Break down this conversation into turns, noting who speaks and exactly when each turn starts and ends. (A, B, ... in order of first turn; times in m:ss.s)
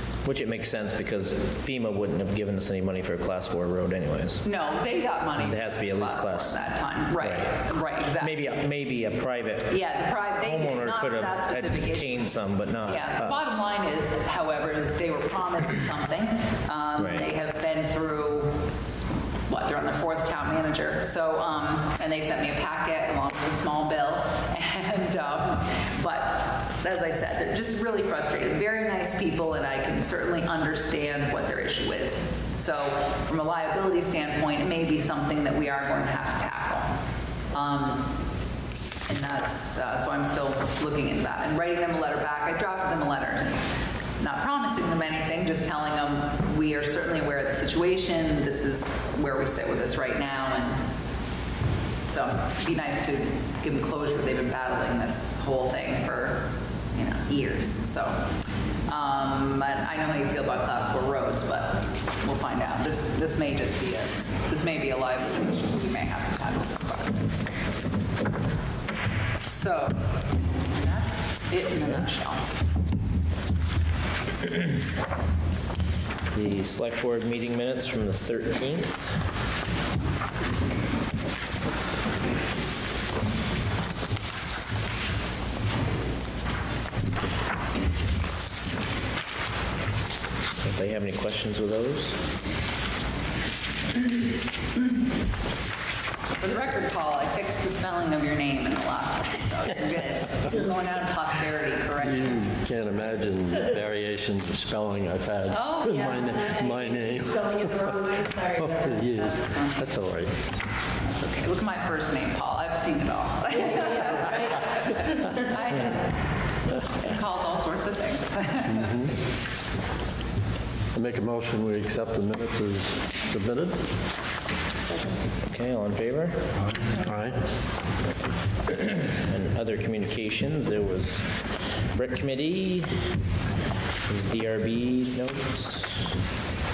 0:00.2-0:04.4 A
0:04.4-0:08.4 B
0:05.4-0:06.6 A
0:07.2-0:07.5 A
0:08.2-0:09.8 A
0:09.7-0:12.3 B
0:10.4-0:13.6 A
0:12.9-0:18.6 B
0:17.0-0:17.3 A
0:19.5-0:36.9 B
0:37.5-0:38.1 B
0:39.1-0:43.7 B
0:44.2-0:50.8 B
0:52.1-0:58.2 B
0:58.9-1:07.4 B
1:09.4-1:12.5 B
1:16.3-1:19.2 A
1:30.6-1:32.2 A
1:36.4-1:42.4 B
1:42.0-1:48.0 C
1:45.5-1:46.6 B
1:45.8-1:49.1 D
1:48.5-1:50.5 C
1:49.1-1:50.0 B
1:51.0-1:56.2 B
1:53.6-1:54.9 D
1:57.0-1:58.9 B
1:58.7-1:59.1 C
2:00.9-2:03.9 C
2:05.5-2:06.5 A
2:06.8-2:07.8 C
2:08.7-2:13.0 A
2:14.1-2:16.2 A